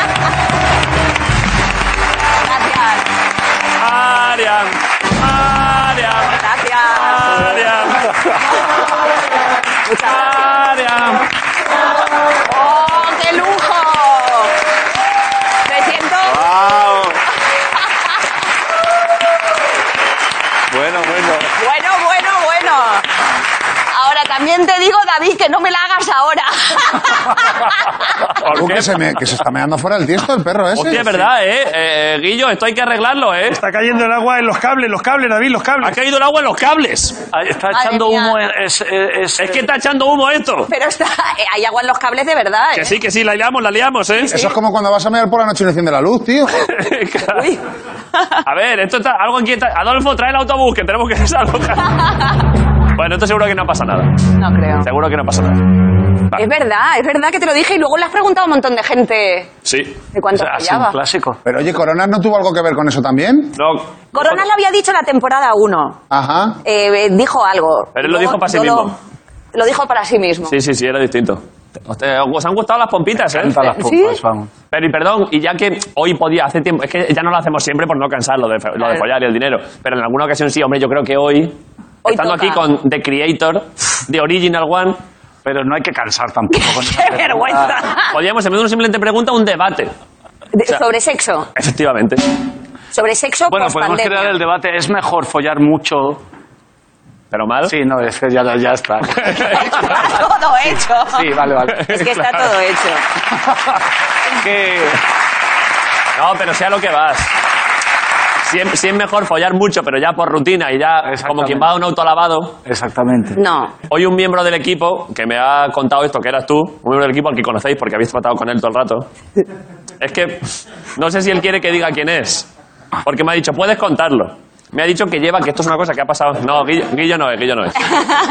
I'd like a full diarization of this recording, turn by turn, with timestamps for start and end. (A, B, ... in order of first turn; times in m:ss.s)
0:02.4-0:03.1 A
0:03.8-0:08.1 B
0:06.3-0:07.5 A
0:09.8-0:10.6 A
0:10.0-0:11.2 B
0:12.4-0:14.5 A
0:15.6-0:16.5 A
0:16.2-0:17.1 C
0:20.7-0:21.5 C
0:21.5-0:23.1 A
0:23.9-0:27.7 A
0:28.4-0:28.9 B
0:28.5-0:31.0 D
0:30.7-0:33.6 B
0:33.5-0:35.9 E
0:35.8-0:37.2 B
0:37.3-0:39.6 C
0:37.7-0:38.4 A
0:39.4-0:40.7 B
0:40.7-0:42.9 A
0:42.7-0:44.3 B
0:44.3-0:46.5 D
0:46.6-0:47.5 B
0:47.3-0:47.6 A
0:48.4-0:52.1 B
0:52.9-0:54.1 B
0:54.4-0:54.9 A
0:54.8-0:55.6 B
0:56.3-0:59.5 A
0:59.6-1:00.0 B
1:00.1-1:01.0 A
1:00.3-1:01.4 C
1:01.4-1:03.5 D
1:03.6-1:04.4 B
1:04.1-1:06.0 A
1:06.1-1:06.6 D
1:06.6-1:08.9 A
1:07.9-1:08.9 B
1:09.5-1:10.6 A
1:10.5-1:13.6 B
1:13.3-1:14.5 C
1:13.7-1:14.2 A
1:14.7-1:21.6 B
1:22.0-1:22.6 A
1:22.1-1:25.0 B
1:25.4-1:27.8 C
1:26.5-1:28.1 A
1:28.1-1:29.9 B
1:30.5-1:31.5 A
1:31.5-1:32.2 B
1:32.9-1:34.4 A
1:33.5-1:36.2 C
1:37.3-1:37.7 B
1:37.6-1:40.0 C
1:39.2-1:40.0 B
1:39.4-1:43.0 A
1:41.1-1:41.8 C
1:41.7-1:42.5 B
1:44.4-1:45.0 C
1:46.2-1:47.3 B
1:48.4-1:52.6 B
1:51.0-1:51.7 C
1:52.6-1:53.4 C
1:53.4-1:53.7 A
1:53.9-1:59.1 B
2:00.0-2:02.5 B
2:03.0-2:07.9 B